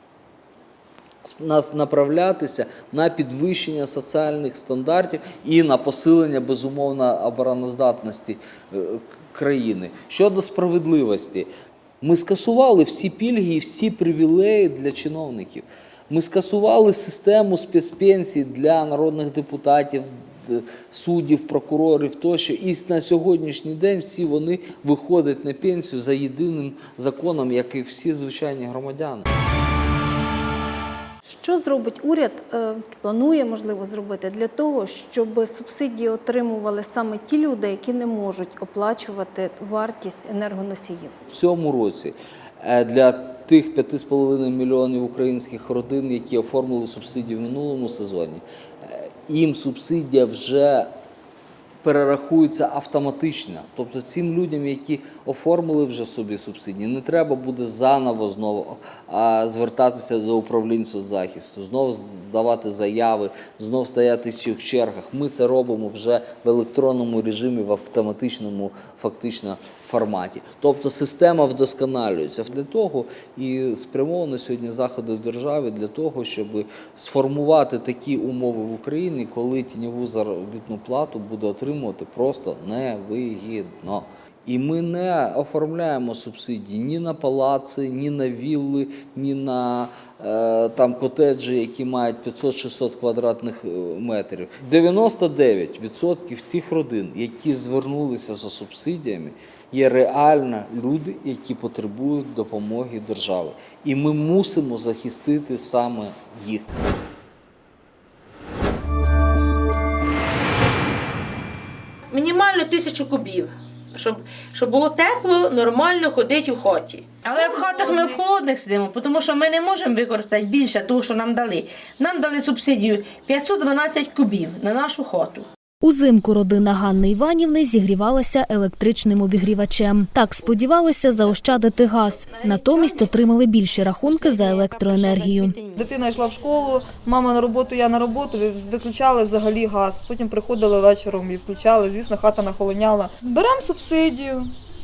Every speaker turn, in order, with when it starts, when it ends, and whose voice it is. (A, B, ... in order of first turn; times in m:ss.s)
0:01.2-0:11.5 A
0:12.0-0:29.3 A
0:31.2-0:41.2 B
0:41.3-0:50.9 A
0:51.8-1:46.8 A
1:52.1-2:05.5 C
2:05.8-2:15.6 D
2:15.7-2:24.5 E